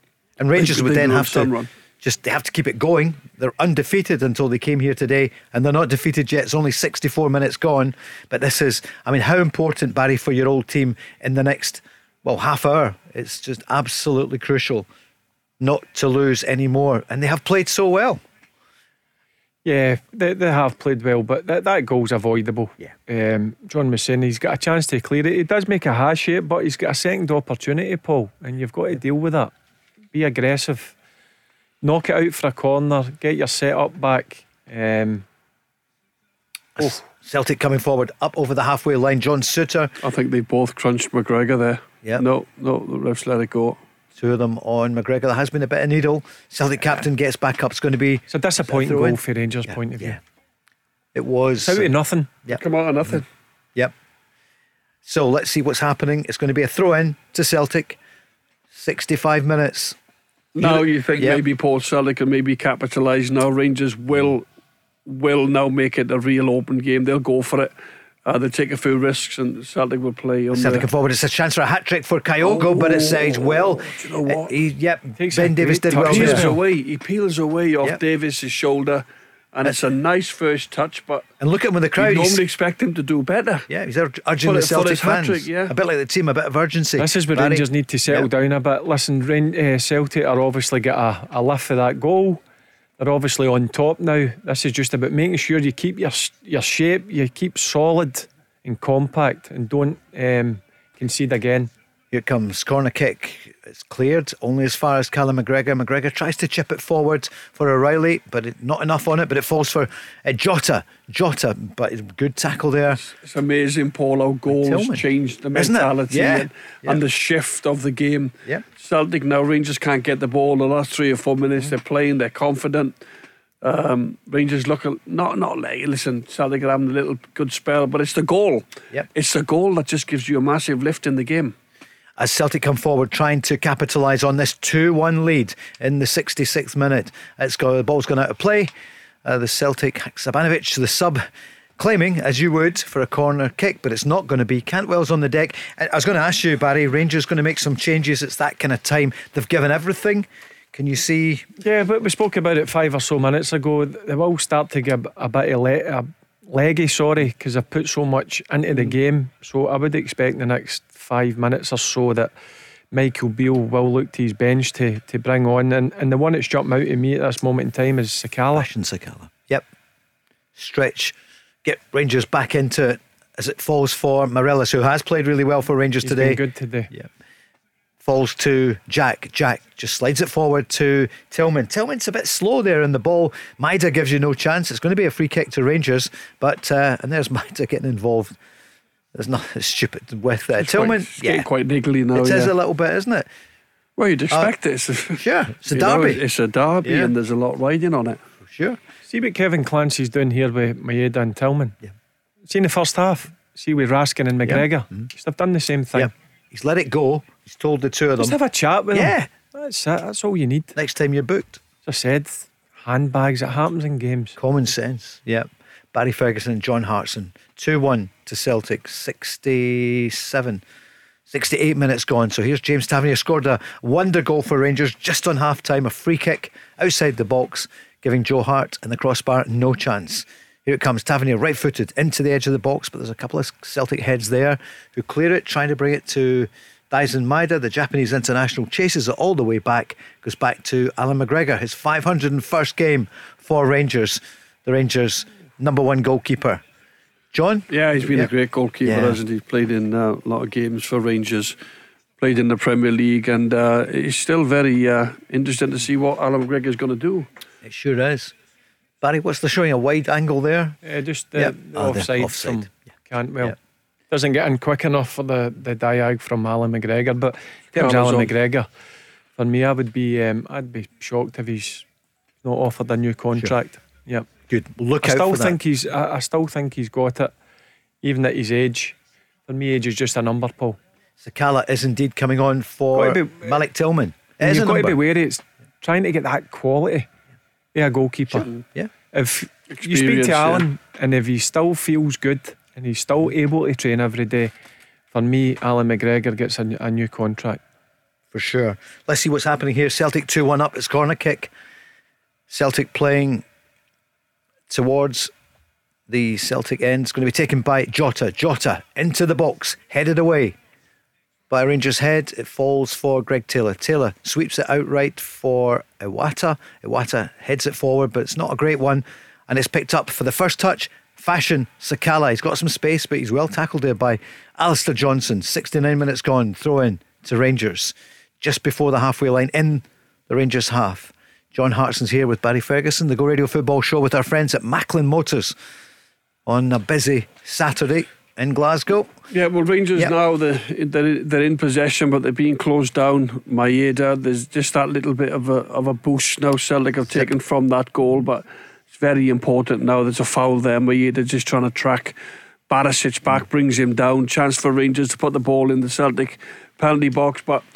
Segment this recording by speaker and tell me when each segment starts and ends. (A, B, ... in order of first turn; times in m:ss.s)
0:00.4-0:14.9 A
0:00.5-0:01.7 B
0:15.6-0:18.2 A
0:19.6-0:29.5 C
0:30.1-0:30.9 C
0:31.8-0:35.2 C
0:36.8-0:39.9 A
0:40.0-0:43.8 B
0:44.2-0:50.2 A
0:48.3-0:50.2 C
0:51.1-0:51.9 A
0:51.6-0:52.3 C
0:52.5-0:53.2 B
0:55.0-0:58.0 A
0:58.7-1:00.0 A
1:00.5-1:04.4 B
1:00.6-1:01.4 A
1:05.0-1:07.7 B
1:08.2-1:10.8 B
1:10.5-1:16.5 A
1:12.4-1:14.6 B
1:15.2-1:16.6 C
1:16.0-1:21.3 B
1:21.4-1:22.4 A
1:22.0-1:23.7 B
1:23.7-1:28.3 A
1:24.4-1:25.7 B
1:27.0-1:32.4 C
1:33.0-1:41.7 C
1:42.1-1:53.1 A
1:53.1-2:02.9 B
1:54.5-1:57.0 A
2:03.6-2:11.5 B
2:12.2-2:18.7 A
2:19.2-2:21.2 A
2:21.8-2:31.5 A
2:31.6-2:42.3 C
2:42.9-2:48.7 C
2:48.5-2:49.6 A
2:50.6-2:57.1 A
2:56.0-2:56.9 C
2:58.0-3:08.4 A
3:09.1-3:11.5 A
3:10.6-3:12.5 B
3:12.1-3:13.2 A
3:14.0-3:18.2 B
3:15.2-3:16.2 A
3:16.8-3:17.1 A
3:18.4-3:18.8 A
3:19.1-3:21.8 C
3:22.5-3:26.1 C
3:24.4-3:25.1 A
3:25.9-3:28.4 A
3:28.2-3:30.7 C
3:28.9-3:29.3 A
3:30.7-3:31.6 A
3:31.8-3:34.4 C
3:34.4-3:40.6 A
3:41.3-4:06.6 A
4:07.3-4:08.3 A
4:07.7-4:11.5 B
4:08.8-4:09.2 A
4:12.2-4:17.3 B
4:17.6-4:18.3 A
4:19.0-4:20.8 A
4:20.8-4:23.6 C
4:21.4-4:22.7 A
4:24.1-4:28.7 C
4:27.8-4:28.3 B
4:29.4-4:31.8 C
4:32.4-4:34.3 C
4:34.5-4:35.6 A
4:35.0-4:37.3 C
4:38.0-4:39.0 C
4:39.5-4:40.8 C
4:41.2-4:45.0 A
4:42.9-4:43.5 C
4:44.4-4:47.1 C
4:47.7-4:48.5 C
4:48.3-4:48.9 A
4:49.1-4:54.5 C
4:49.8-4:50.6 B
4:55.1-4:57.6 C
4:58.3-5:01.5 A
5:02.5-5:03.4 A
5:04.7-5:05.3 A
5:06.1-5:10.6 A
5:11.5-5:35.5 A
5:36.4-5:39.1 A
5:39.3-5:52.1 B
5:52.7-5:57.6 B